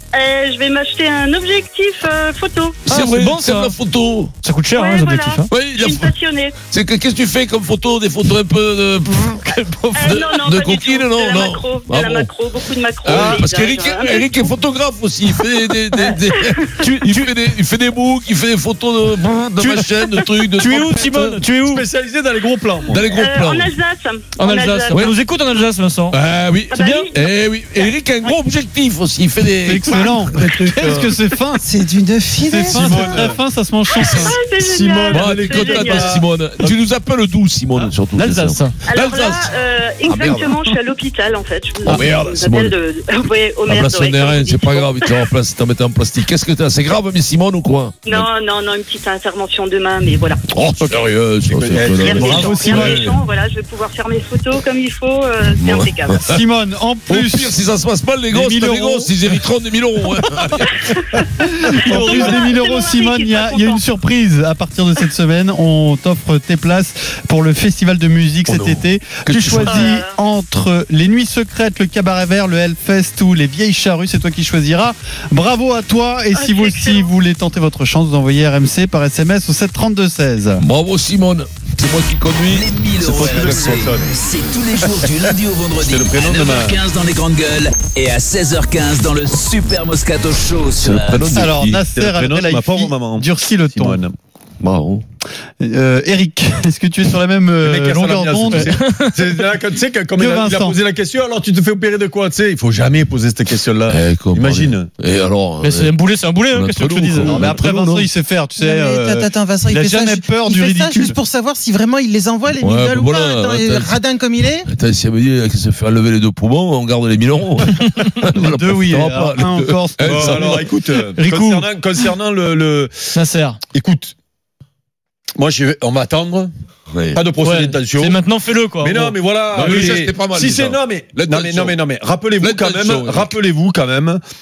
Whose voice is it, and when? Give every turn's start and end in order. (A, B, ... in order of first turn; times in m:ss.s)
0:00.1-0:02.9 A
0:02.9-0:03.8 B
0:02.9-0:04.3 C
0:04.4-0:05.5 B
0:04.8-0:06.6 A
0:05.5-0:09.4 C
0:09.3-0:10.2 B
0:10.0-0:14.5 A
0:10.0-0:12.4 C
0:13.0-0:21.4 C
0:15.9-0:16.9 A
0:16.8-0:17.4 B
0:19.6-0:21.8 B
0:21.6-0:23.1 D
0:22.9-0:23.8 C
0:23.1-0:25.2 A
0:24.4-0:26.2 B
0:26.1-0:31.1 C
0:26.7-0:28.4 A
0:26.8-0:27.1 B
0:29.6-0:31.6 E
0:31.6-0:33.3 F
0:32.5-0:34.4 E
0:32.7-0:33.4 D
0:34.0-0:36.2 A
0:34.6-0:36.8 D
0:35.1-0:40.5 C
0:38.2-0:38.8 B
0:38.9-0:45.3 A
0:41.8-0:42.8 C
0:43.7-0:48.3 C
0:48.1-0:50.4 A
0:50.5-0:53.2 C
0:50.9-0:52.5 D
0:51.9-0:56.2 A
0:52.1-0:53.1 E
0:55.5-0:56.4 C
0:56.2-0:57.6 E
0:57.1-1:00.8 C
0:58.3-0:59.2 E
1:00.6-1:01.2 A
1:01.4-1:20.6 E
1:01.7-1:03.8 A
1:02.0-1:02.2 B
1:08.5-1:09.9 C
1:09.7-1:10.1 A
1:16.4-1:17.1 A
1:20.6-1:23.8 C
1:22.5-1:31.4 G
1:23.1-1:26.8 D
1:30.8-1:31.8 C
1:31.3-1:34.0 E
1:31.9-1:34.2 D
1:34.6-1:35.0 C
1:35.6-1:38.7 E
1:37.6-1:44.9 D
1:38.5-1:39.2 B
1:40.2-1:40.8 E
1:43.9-1:48.1 C
1:45.6-1:47.4 B
1:47.2-1:51.2 E
1:48.6-1:54.7 F
1:52.6-1:54.0 C
1:54.6-2:00.6 C
1:58.3-2:00.6 E
2:00.1-2:03.1 D
2:01.1-2:01.7 B
2:03.1-2:03.6 B
2:03.7-2:04.1 D
2:05.4-2:06.5 D
2:06.9-2:07.2 C
2:07.1-2:08.2 D
2:07.4-2:09.9 B
2:08.8-2:14.2 D
2:09.5-2:11.8 C
2:12.4-2:13.3 C